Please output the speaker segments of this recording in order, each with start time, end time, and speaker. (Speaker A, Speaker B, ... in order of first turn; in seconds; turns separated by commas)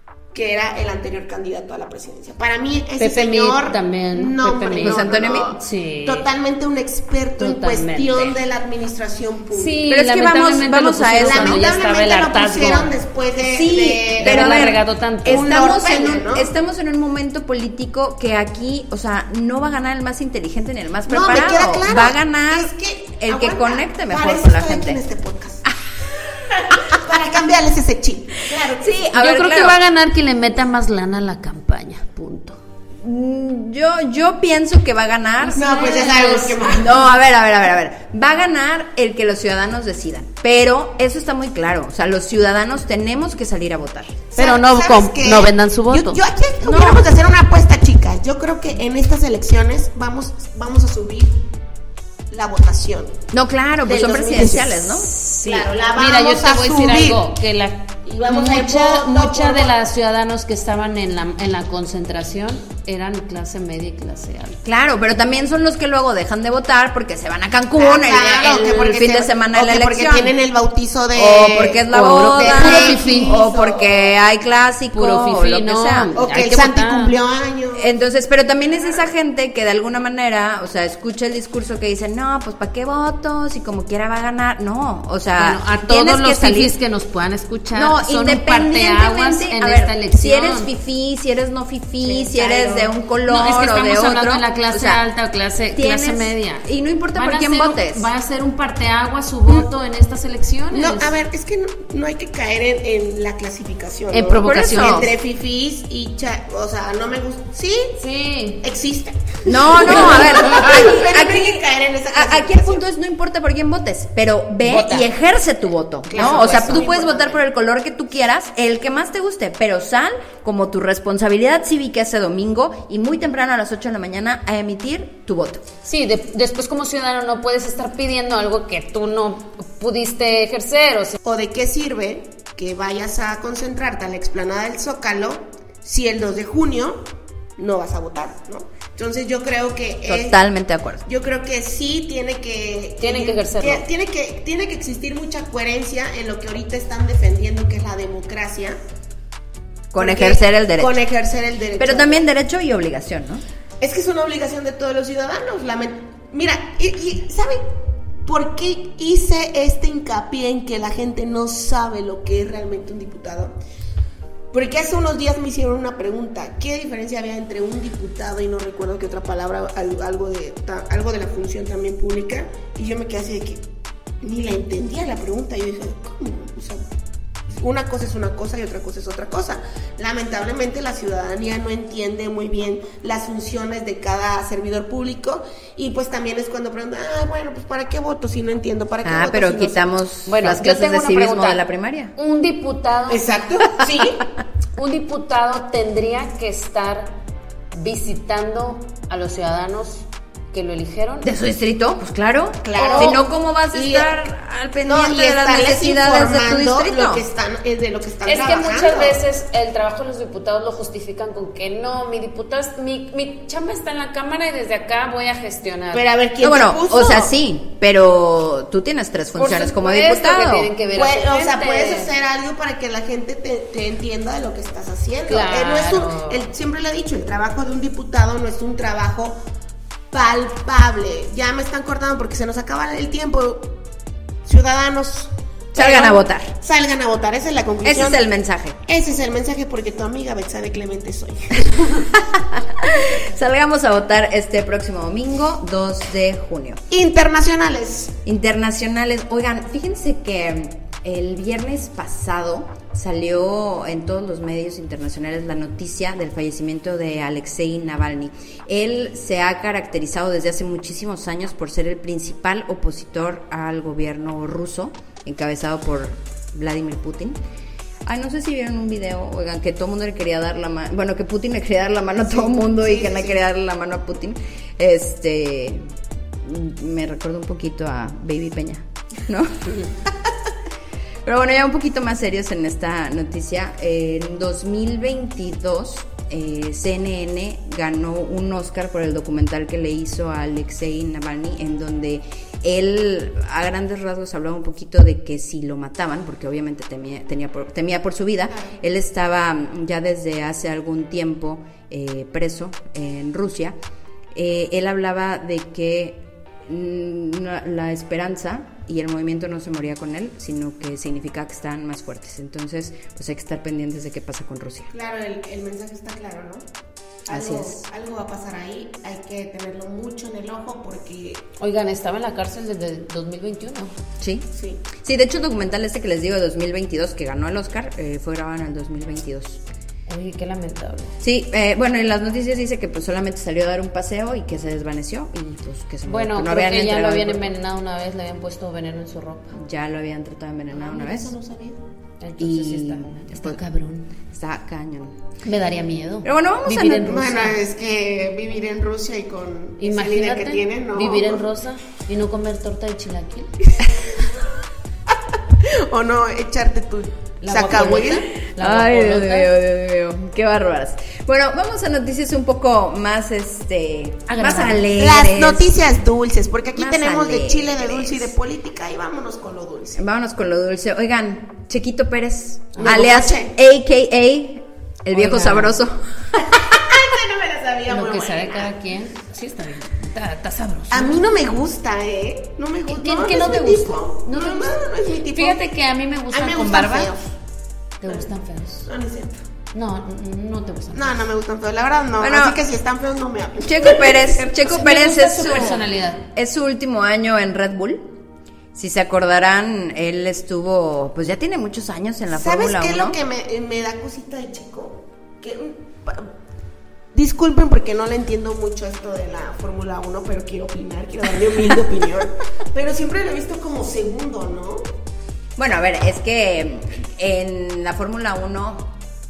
Speaker A: 0.3-9.8, Speaker B: 3.0-6.3, Speaker C: 4.8-5.5, Speaker B: 7.4-8.3, Speaker B: 9.5-12.9, Speaker C: 9.9-11.6, Speaker A: 11.2-16.5, Speaker C: 13.4-25.0, Speaker B: 14.2-15.5, Speaker A: 21.1-25.6, Speaker A: 26.3-29.0, Speaker C: 26.7-27.0, Speaker C: 28.5-29.8, Speaker B: 29.1-32.6, Speaker C: 33.0-35.9, Speaker B: 35.4-36.6, Speaker A: 35.5-37.1, Speaker C: 36.7-44.2, Speaker A: 44.3-51.4, Speaker B: 44.4-46.2, Speaker C: 46.6-47.1, Speaker A: 52.3-53.2, Speaker C: 53.3-55.1, Speaker A: 53.8-57.3, Speaker B: 55.0-64.6, Speaker A: 58.0-59.8, Speaker C: 64.6-70.3, Speaker A: 67.7-74.1, Speaker C: 71.1-76.4, Speaker B: 71.9-73.4, Speaker B: 74.9-77.1, Speaker A: 76.2-77.9, Speaker C: 77.8-86.7, Speaker B: 85.4-90.7, Speaker C: 87.7-95.0, Speaker A: 92.0-92.9, Speaker B: 93.3-101.1, Speaker C: 95.7-98.1, Speaker A: 100.7-108.0, Speaker B: 104.1-105.1, Speaker C: 104.4-105.1, Speaker B: 108.0-108.6, Speaker A: 108.6-112.8, Speaker C: 109.5-125.6, Speaker B: 114.6-115.0, Speaker A: 116.1-117.4, Speaker B: 116.1-116.8, Speaker B: 125.8-131.2, Speaker A: 131.2-137.0, Speaker A: 137.6-140.4, Speaker C: 140.1-141.0, Speaker A: 141.1-148.8, Speaker B: 143.0-143.8, Speaker C: 149.9-151.0, Speaker A: 149.9-152.2, Speaker C: 151.8-153.4, Speaker A: 153.8-157.6, Speaker A: 158.2-163.5, Speaker A: 164.5-173.6, Speaker A: 174.2-176.9, Speaker A: 177.5-189.8, Speaker C: 189.0-192.1, Speaker B: 190.3-191.6, Speaker B: 192.2-193.2, Speaker A: 193.1-194.3, Speaker B: 194.8-197.2, Speaker B: 197.7-201.3, Speaker C: 201.2-207.2, Speaker A: 202.6-204.1, Speaker B: 202.8-203.2, Speaker A: 204.8-209.2, Speaker B: 208.2-216.0, Speaker A: 215.9-217.3, Speaker C: 216.4-220.7, Speaker B: 219.3-222.1, Speaker A: 220.9-229.4, Speaker B: 225.3-226.5, Speaker A: 230.1-233.8, Speaker A: 234.4-238.2, Speaker C: 235.7-236.5, Speaker C: 237.8-238.8, Speaker A: 238.8-242.1, Speaker C: 242.1-246.8, Speaker A: 246.9-248.1, Speaker C: 248.2-267.4, Speaker C: 268.0-275.8, Speaker A: 272.2-273.4, Speaker C: 276.4-280.3, Speaker C: 281.2-303.8, Speaker C: 304.3-314.9, Speaker A: 314.9-316.6, Speaker A: 317.2-321.4, Speaker C: 317.3-317.8, Speaker B: 321.6-323.9, Speaker C: 324.2-329.6, Speaker A: 324.5-324.9, Speaker B: 330.1-331.1, Speaker C: 331.2-337.5, Speaker B: 336.1-339.6, Speaker C: 339.6-341.3, Speaker A: 340.8-341.8, Speaker B: 342.2-344.1, Speaker C: 342.4-343.6, Speaker C: 344.3-345.2, Speaker B: 345.4-347.6, Speaker C: 346.2-347.1, Speaker A: 346.8-351.4, Speaker B: 349.8-353.6, Speaker A: 355.6-358.2, Speaker B: 357.4-359.5, Speaker C: 358.4-365.7, Speaker B: 364.3-364.8, Speaker A: 364.9-370.0, Speaker C: 366.8-368.3, Speaker C: 369.9-376.9, Speaker A: 372.8-373.5, Speaker B: 375.1-375.8, Speaker A: 376.7-378.7, Speaker B: 377.9-381.1, Speaker A: 380.9-385.6, Speaker B: 382.9-384.8, Speaker B: 385.3-387.1, Speaker A: 386.3-387.3, Speaker B: 388.0-388.9, Speaker A: 388.9-389.4, Speaker B: 389.7-391.2, Speaker A: 390.9-394.6, Speaker C: 392.2-392.6, Speaker C: 393.6-398.1, Speaker B: 394.6-396.2, Speaker C: 398.7-403.2, Speaker A: 402.3-406.3, Speaker A: 407.1-414.8, Speaker C: 415.6-418.9